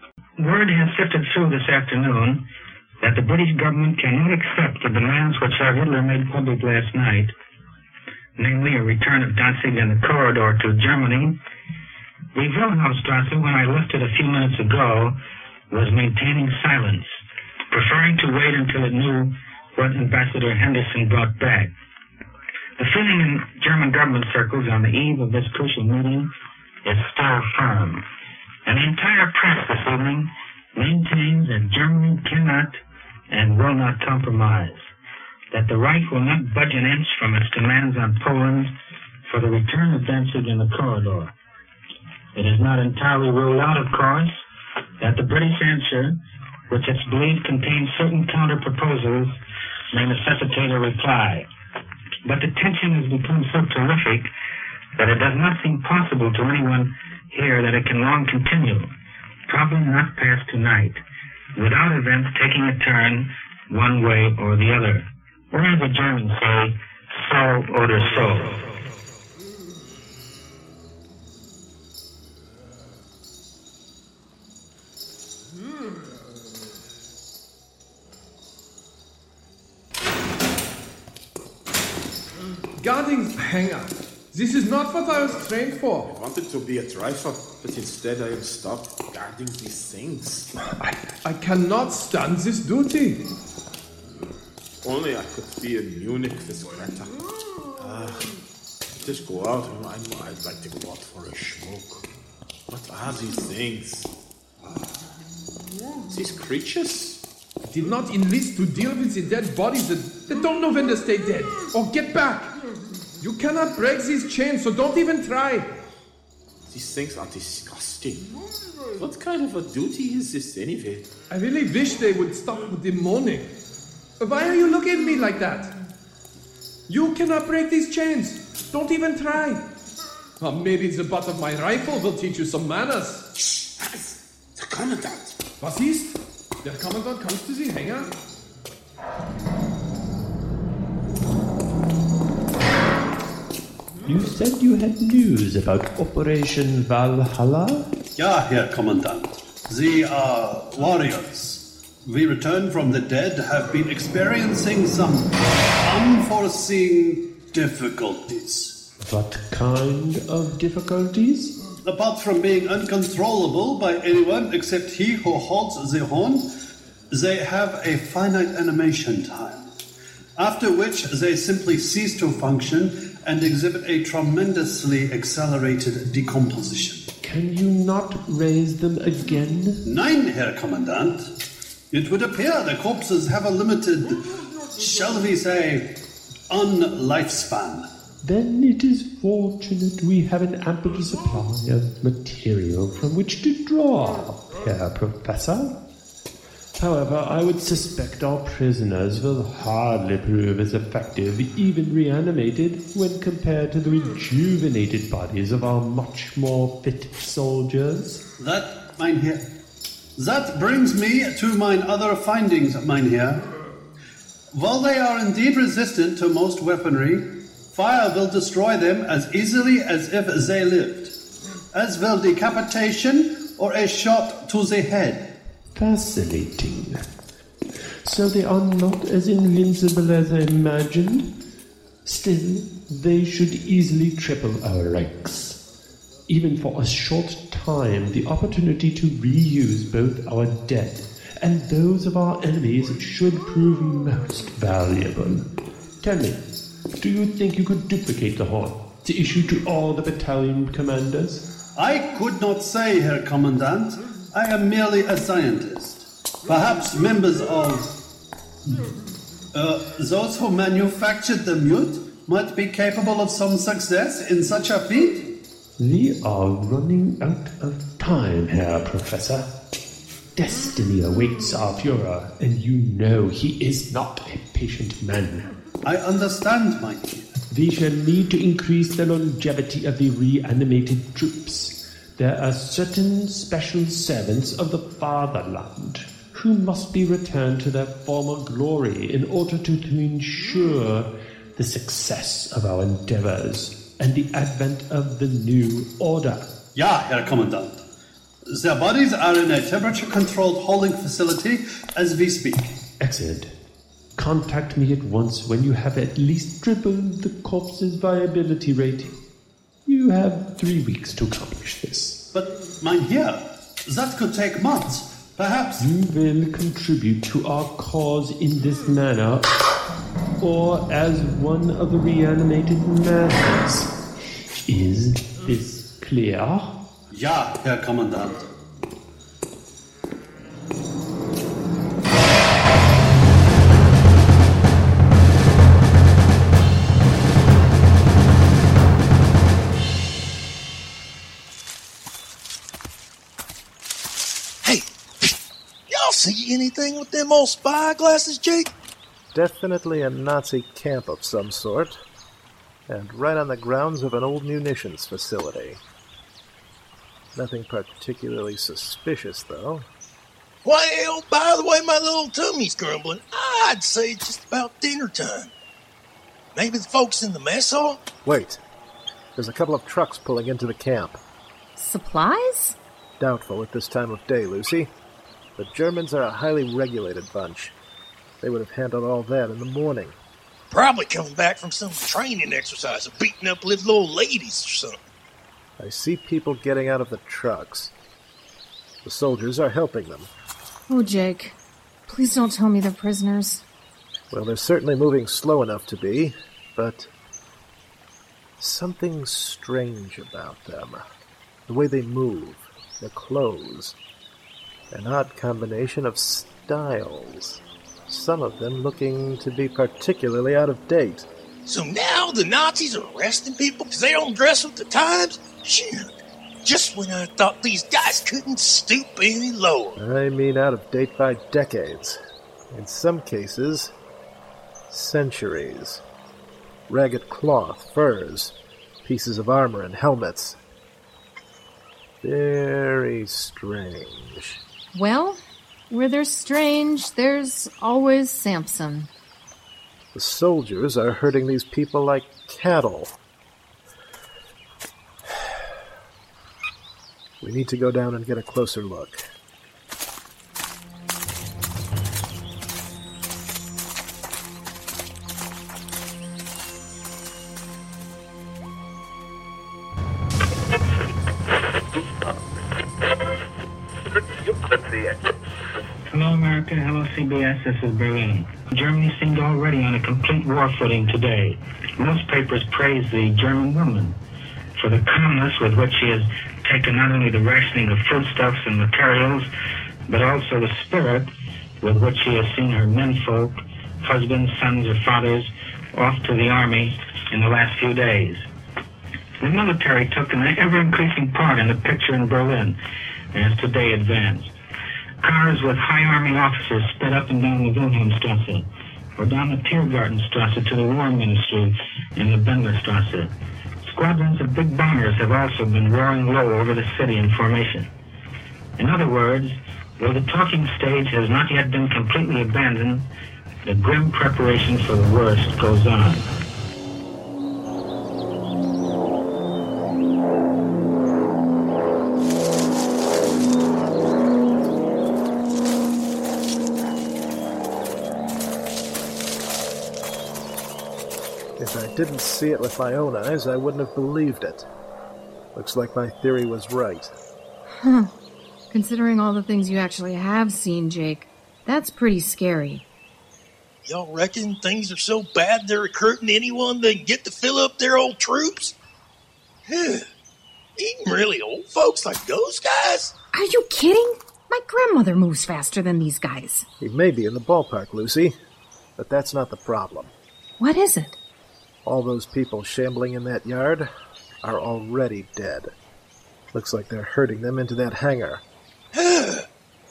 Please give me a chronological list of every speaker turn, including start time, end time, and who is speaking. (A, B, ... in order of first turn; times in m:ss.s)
0:00.4-0:02.4 A
0:03.0-0:07.3 A
0:08.4-0:11.4 A
0:12.3-0:15.2 A
0:15.7-0:17.1 A
0:17.7-0:21.7 A
0:22.8-0:26.3 A
0:26.8-0:28.0 A
0:28.6-0:32.8 A
0:33.3-0:34.8 A
0:35.5-0:38.7 A
0:39.3-0:41.3 A
0:42.3-0:44.4 A
0:45.0-0:49.4 A
0:49.9-0:51.5 A
0:52.2-0:54.3 A
0:55.0-0:58.9 A
0:59.5-1:01.0 A
1:01.6-1:08.6 A
1:22.8-1:26.1 B
1:26.0-1:31.0 C
1:31.2-1:33.2 B
1:34.8-1:37.1 C
1:37.8-1:38.3 C
1:39.0-1:42.0 C
1:42.7-1:44.1 C
1:46.1-1:47.2 C
1:47.7-1:52.5 B
1:53.2-1:55.7 B
1:56.7-1:58.4 C
1:58.9-2:01.1 C
2:01.3-2:03.5 B
2:04.2-2:05.7 B
2:06.9-2:09.6 B
2:10.4-2:13.2 B
2:13.6-2:15.4 C
2:15.6-2:18.1 B
2:24.0-2:27.9 D
2:28.2-2:38.8 E
2:39.0-2:41.6 D
2:41.8-2:46.5 E
2:47.1-2:49.7 E
2:50.4-2:57.0 E
2:57.2-2:59.8 D
2:59.8-3:01.3 E
3:01.9-3:04.2 E
3:04.8-3:05.9 E
3:06.5-3:07.9 E
3:08.2-3:15.8 D
3:16.8-3:28.2 D
3:28.4-3:29.4 E
3:30.2-3:33.4 E
3:34.5-3:41.1 E
3:41.7-3:45.3 E
3:45.7-3:47.0 D
3:48.0-3:51.3 D
3:52.0-3:55.6 D
3:56.3-4:05.5 D
4:06.0-4:11.5 D
4:11.8-4:17.9 E
4:19.5-4:25.2 E
4:25.8-4:29.5 D
4:30.3-4:35.6 D
4:35.8-4:37.2 E
4:37.5-4:56.6 D
4:56.7-4:57.8 E
4:58.5-5:02.8 E
5:03.0-5:03.5 D
5:04.2-5:09.2 D
5:09.8-5:12.2 D
5:12.3-5:15.8 E
5:15.8-5:19.5 D
5:20.4-5:23.9 D
5:24.6-5:26.8 D
5:27.1-5:28.4 E
5:44.6-5:45.3 F
5:45.9-5:48.7 F
5:49.3-5:52.0 G
5:52.9-5:55.8 G
5:57.3-5:59.9 G
6:00.6-6:05.5 F
6:06.5-6:08.0 F
6:08.2-6:08.6 G
6:09.4-6:11.2 G
6:11.8-6:12.8 H
6:13.2-6:14.9 G
6:15.6-6:17.8 G
6:18.4-6:20.2 G
6:20.7-6:25.0 F
6:25.8-6:27.9 G
6:29.0-6:30.3 G
6:30.9-6:31.6 H
6:32.1-6:33.6 H
6:34.3-6:37.1 G
6:38.6-6:41.0 G
6:41.7-6:44.0 G
6:44.9-6:51.3 G
6:51.6-7:00.0 F
7:00.0-7:02.2 G
7:02.7-7:03.9 G
7:04.9-7:06.0 G
7:06.9-7:10.6 G
7:12.2-7:14.6 G
7:14.9-7:19.1 H
7:20.1-7:23.1 G
7:25.3-7:25.6 G
7:27.4-7:29.2 G
7:46.1-7:54.2 A
7:54.8-7:59.5 A
8:00.1-8:01.3 A
8:01.8-8:08.5 A
8:09.4-8:12.8 A
8:13.3-8:14.5 A
8:15.2-8:18.6 A
8:19.2-8:23.3 A
8:23.8-8:27.9 A
8:28.8-8:33.1 A
8:33.6-8:36.2 A
8:51.6-8:54.6 G
8:55.5-8:57.1 G
8:57.6-8:58.1 H
8:58.7-9:02.8 H
9:03.8-9:08.8 F
9:09.7-9:10.0 F
9:10.8-9:13.1 F
9:13.3-9:16.6 H
9:16.8-9:18.3 G
9:19.0-9:20.1 G
9:20.6-9:21.2 H
9:21.8-9:23.9 G
9:24.4-9:25.7 G
9:26.5-9:28.4 G
9:28.9-9:29.4 F